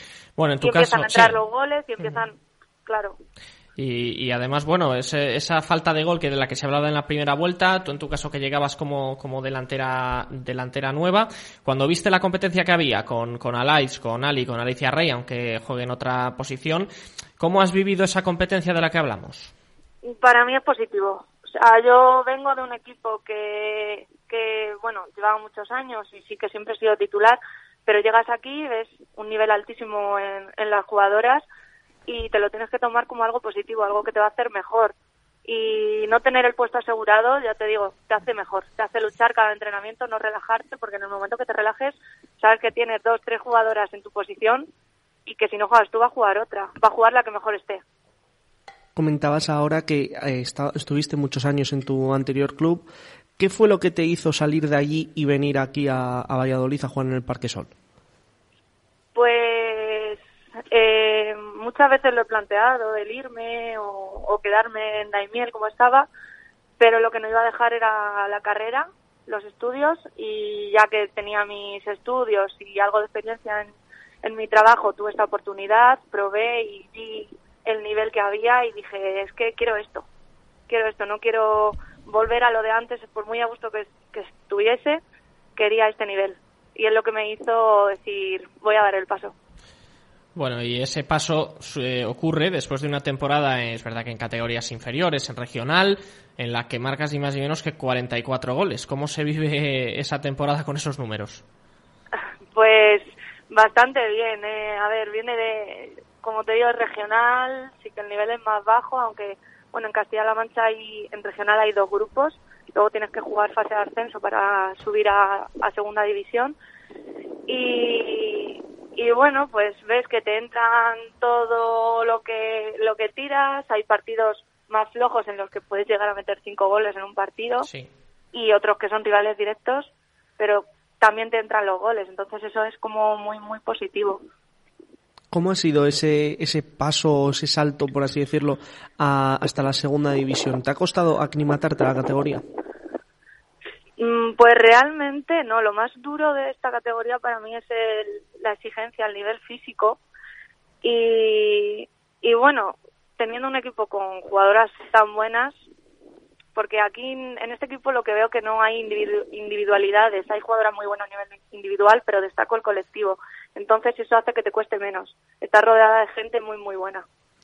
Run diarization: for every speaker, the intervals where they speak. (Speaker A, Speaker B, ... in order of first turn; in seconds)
Speaker A: 0.4-1.4, 3.8-19.5, 90.4-101.4, 127.6-127.9
Speaker B: 0.6-3.2, 20.0-31.4, 32.1-34.9, 35.5-44.7, 45.2-47.8, 59.1-60.2, 60.7-66.1, 66.8-73.7, 74.2-80.1, 80.7-85.0, 85.6-89.3, 102.5-116.6, 117.5-127.7, 128.3-134.2, 144.0-150.0, 150.8-155.6, 156.6-167.1
Speaker C: 49.0-52.8, 53.4-57.7, 135.3-142.4